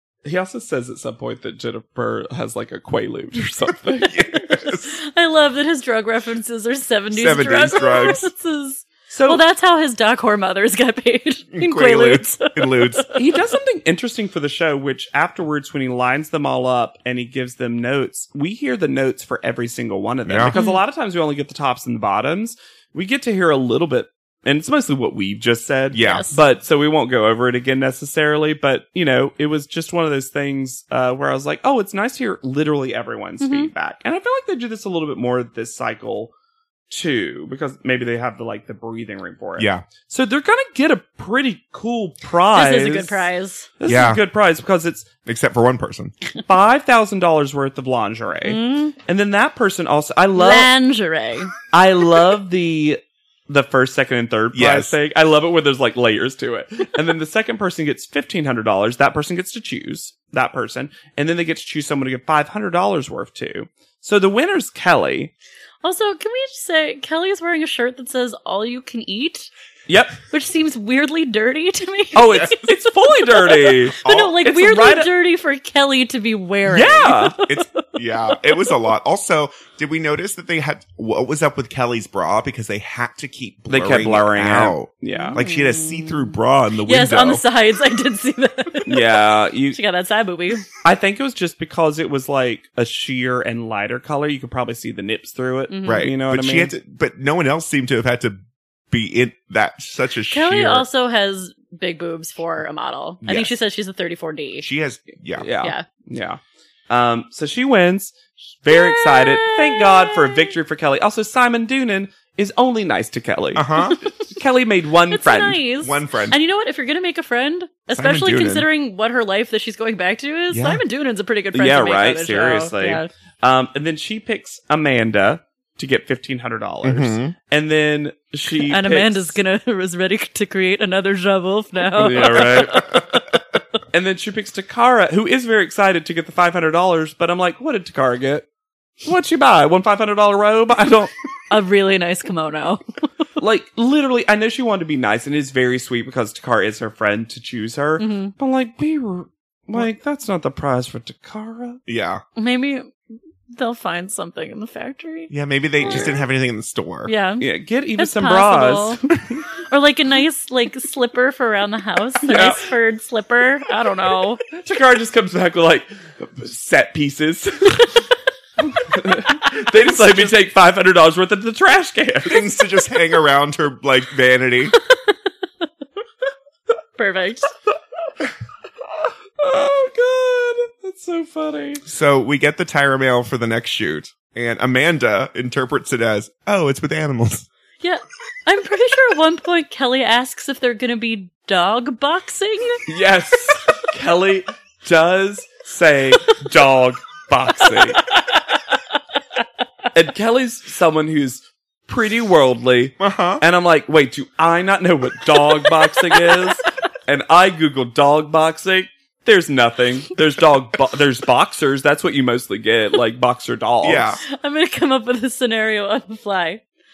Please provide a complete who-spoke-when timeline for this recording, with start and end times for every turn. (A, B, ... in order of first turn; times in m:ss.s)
0:00.2-0:04.3 A
0:04.0-0:05.0 B
0:04.3-0:13.4 C
0:07.1-0:08.3 B
0:09.1-0:09.4 A
0:11.5-0:13.1 B
0:13.2-0:36.3 A
0:20.3-0:20.6 B
0:20.5-0:20.8 C
0:25.9-0:26.3 B
0:26.0-0:26.4 C
0:33.4-0:33.7 C
0:36.9-0:43.3 A
0:39.6-0:39.9 B
0:42.5-0:43.7 C
0:43.8-0:45.1 A
0:43.8-0:44.2 B
0:45.2-0:46.1 B
0:46.5-0:50.7 A
0:48.4-0:48.9 C
0:50.4-0:51.5 C
0:51.7-1:05.3 A
0:54.5-0:55.0 B
1:05.8-1:09.5 C
1:09.9-1:10.2 A
1:10.3-1:12.6 C
1:12.2-1:15.1 A
1:12.3-1:12.5 B
1:13.3-1:17.8 C
1:14.0-1:14.4 B
1:16.7-1:17.4 A
1:17.5-1:27.4 B
1:23.7-1:25.4 A
1:25.1-1:29.2 C
1:28.9-1:29.8 A
1:29.7-1:30.7 C
1:30.8-1:36.7 A
1:35.7-1:36.1 C
1:35.8-1:38.4 B
1:38.9-1:40.9 B
1:40.3-1:44.7 C
1:43.2-1:43.5 B
1:44.6-1:45.5 B
1:45.4-1:53.7 A
1:45.6-1:45.8 C
1:48.7-1:50.5 C
1:53.6-1:54.0 B
1:53.8-1:54.2 C
1:54.3-1:55.6 A
1:55.1-2:03.1 C
1:55.8-1:56.4 B
1:57.9-1:58.7 B
2:00.5-2:00.8 B
2:01.5-2:09.4 A
2:06.8-2:07.3 B
2:08.6-2:13.4 C
2:12.0-2:13.0 A
2:13.9-2:18.5 A
2:19.0-2:21.1 A
2:21.5-2:22.8 C
2:23.4-2:31.8 A
2:28.0-2:28.3 C
2:31.9-2:32.2 B
2:32.4-2:32.9 C
2:33.5-2:35.3 C
2:35.3-2:37.1 B
2:35.8-2:36.1 C
2:37.0-2:37.5 C
2:37.4-2:39.1 A
2:38.0-2:39.0 C
2:39.7-2:44.4 C
2:42.2-2:42.6 A
2:44.5-2:52.5 A
2:52.2-2:54.8 B
2:57.0-2:57.5 C
2:59.4-3:01.8 A
3:01.9-3:07.5 B
3:07.8-3:12.8 C
3:12.9-3:18.0 A
3:19.9-3:34.2 A
3:23.0-3:23.4 B
3:26.1-3:26.5 C
3:33.8-3:34.2 B
3:34.3-3:36.6 C